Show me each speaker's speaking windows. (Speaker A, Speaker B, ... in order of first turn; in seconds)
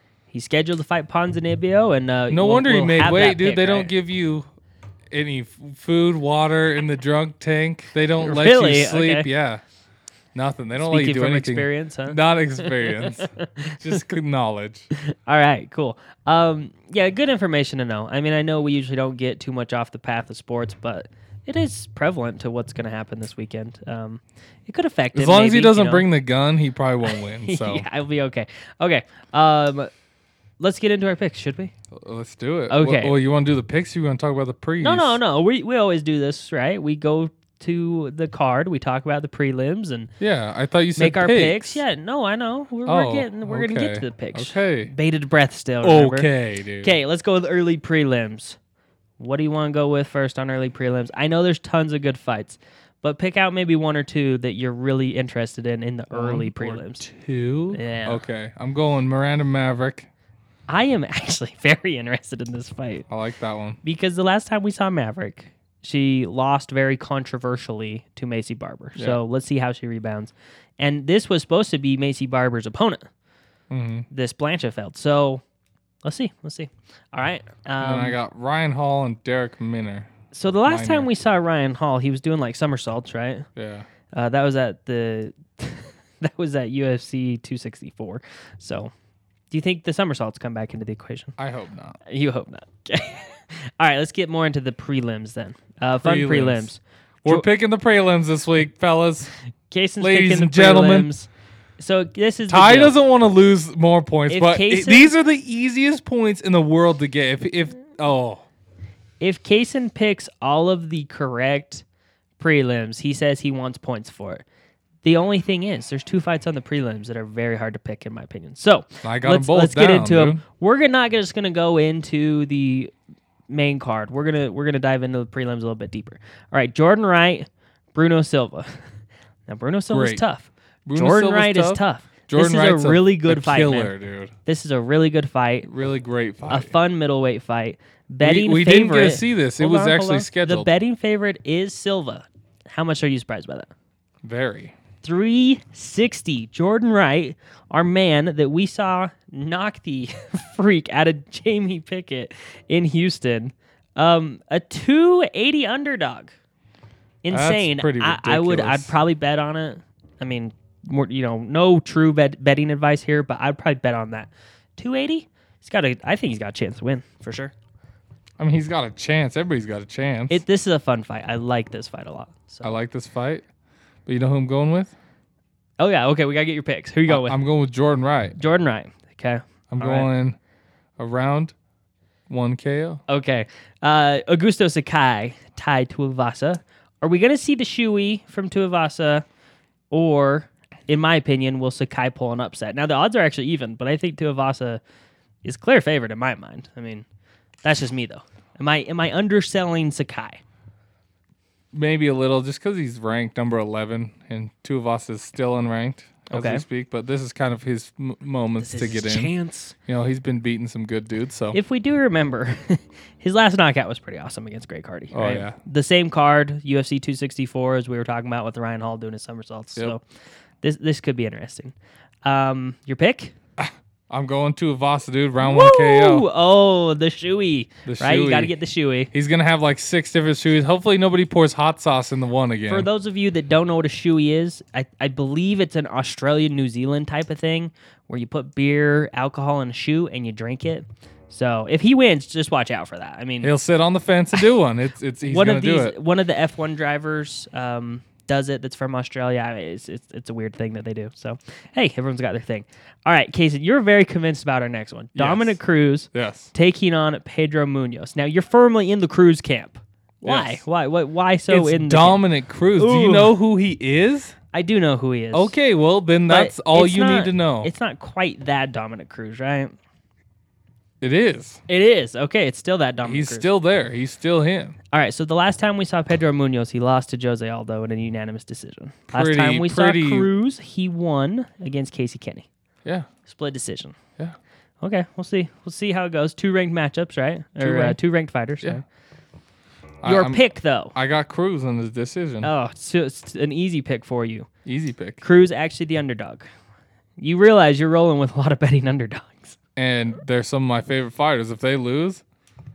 Speaker A: 0.3-3.9, 8.2-9.3, 10.8-14.0, 15.0-26.1, 27.1-29.9, 30.6-31.7, 32.7-33.2, 34.8-40.1, 41.0-46.3, 46.8-48.6, 49.2-57.1, 57.7-58.2, 60.7-63.1, 63.8-73.0, 74.1-75.4, 76.0-78.2, 80.3-83.5, 84.1-88.9, 89.5-91.4, 92.1-97.5, 99.7-103.0, 104.3-105.1, 109.2-111.8, 112.4-114.4, 115.0-122.9, 123.5-128.8, 129.5-133.9, 134.4-135.7, 136.5-143.7, 145.0-156.3, 157.2-167.5, 170.3-172.7, 175.8-177.4, 178.4-180.1, 183.1-189.2, 189.9-194.8, 195.4-197.1, 197.6-200.4, 206.3-206.6, 208.6-209.7, 211.5-220.0, 220.6-221.7, 222.2-223.3, 225.4-229.1, 232.7-243.5, 245.3-262.2, 262.8-263.4, 264.5-265.5, 266.3-269.8, 271.7-273.5, 274.9-282.5, 283.3-284.0, 284.8-288.8, 290.0-290.9, 292.4-294.5, 295.2-296.5, 297.2-299.6
Speaker B: 2.3-4.5, 5.1-9.6, 10.3-14.9, 25.1-27.9, 31.9-35.2, 40.2-41.8, 42.9-44.9, 45.8-46.9, 56.1-60.1, 63.1-63.8, 73.7-74.1, 77.8-80.1, 80.7-81.1, 83.6-83.9, 91.4-92.0, 96.0-96.7, 97.2-99.3, 100.0-101.1, 102.5-108.5, 119.0-120.4, 129.9-130.2, 130.9-134.3, 135.7-136.8, 138.2-140.7, 144.2-144.7, 157.3-158.9, 168.4-170.4, 172.6-173.4, 174.1-174.9, 177.1-178.4, 179.7-180.4, 181.0-181.5, 182.3-183.0, 201.7-209.3, 209.9-211.6, 215.1-215.6, 223.6-226.3, 227.9-228.5, 229.1-232.9, 243.4-245.9, 255.2-255.6, 256.1-256.5, 260.2-260.6, 261.5-264.4, 265.3-267.7, 271.0-271.6, 273.0-274.8, 279.1-280.3, 287.6-288.0, 290.0-290.4, 290.9-292.5, 294.6-295.2, 299.8-302.2